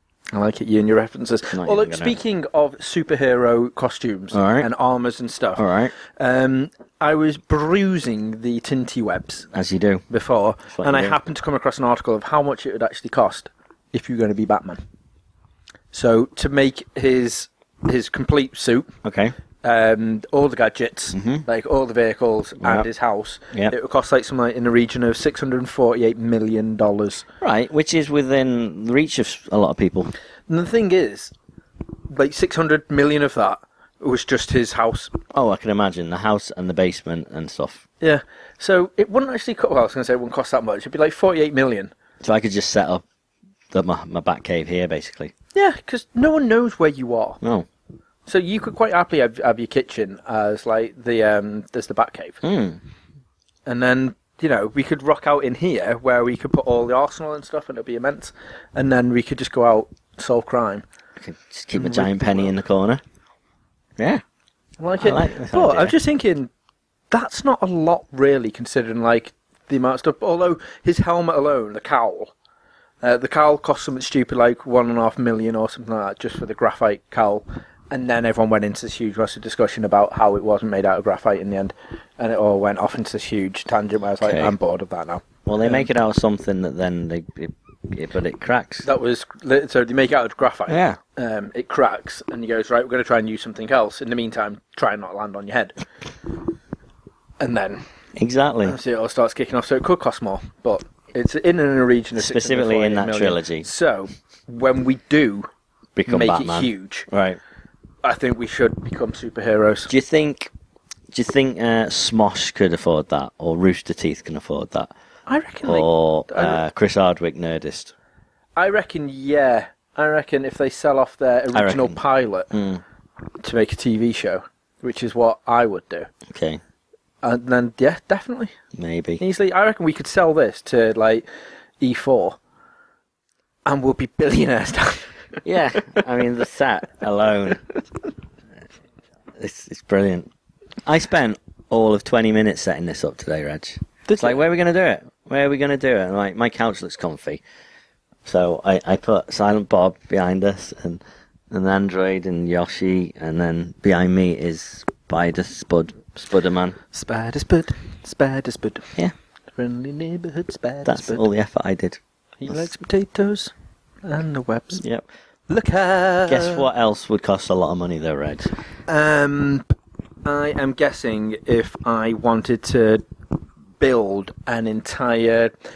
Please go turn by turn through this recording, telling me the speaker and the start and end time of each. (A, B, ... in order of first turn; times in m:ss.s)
0:00.3-0:09.4 A
0:01.5-0:02.2 B
0:04.3-0:04.7 B
0:05.6-0:05.9 B
0:09.5-0:10.0 B
0:10.1-0:14.8 A
0:10.7-0:11.2 B
0:15.9-0:18.9 A
0:19.0-0:19.3 B
0:19.6-0:27.2 A
0:21.1-0:21.4 B
0:22.6-0:22.9 B
0:27.4-0:30.1 B
0:30.5-0:31.3 A
0:32.1-0:35.1 A
0:35.3-0:37.8 B
0:38.0-0:41.9 A
0:42.2-0:43.0 B
0:43.7-0:45.3 B
0:45.5-0:47.4 A
0:47.4-0:47.7 B
0:48.2-0:52.4 A
0:52.4-0:52.8 B
0:53.6-1:00.8 A
1:01.2-1:03.0 B
1:01.7-1:02.5 A
1:04.0-1:04.2 B
1:04.8-1:06.5 A
1:05.0-1:05.9 B
1:07.1-1:12.3 A
1:13.0-1:25.9 A
1:24.2-1:24.5 B
1:25.4-1:28.8 B
1:28.8-1:35.8 A
1:30.7-1:31.0 B
1:37.4-1:37.8 A
1:38.2-1:38.8 B
1:38.6-1:45.5 A
1:42.2-1:43.6 B
1:46.0-1:47.4 B
1:46.1-1:47.1 A
1:48.0-1:49.9 A
1:49.9-1:50.5 B
1:51.1-1:54.9 B
1:55.3-1:56.6 A
1:55.6-1:57.9 B
1:58.6-2:02.5 A
2:01.5-2:02.0 B
2:02.5-2:02.8 B
2:03.4-2:06.1 A
2:06.3-2:06.6 B
2:07.2-2:08.5 A
2:08.8-2:09.2 B
2:09.2-2:11.2 A
2:11.8-2:12.4 A
2:13.6-2:15.1 A
2:15.4-2:17.6 B
2:19.4-2:20.3 B
2:20.8-2:27.4 B
2:24.1-2:24.4 A
2:28.2-2:36.8 B
2:36.9-2:38.9 A
2:39.5-2:41.2 A
2:40.8-2:42.7 B
2:42.4-2:43.5 A
2:44.0-2:44.8 A
2:44.8-2:45.0 B
2:45.5-2:46.6 A
2:46.3-2:48.5 B
2:48.9-2:49.7 A
2:50.2-2:53.0 A
2:53.8-2:55.6 A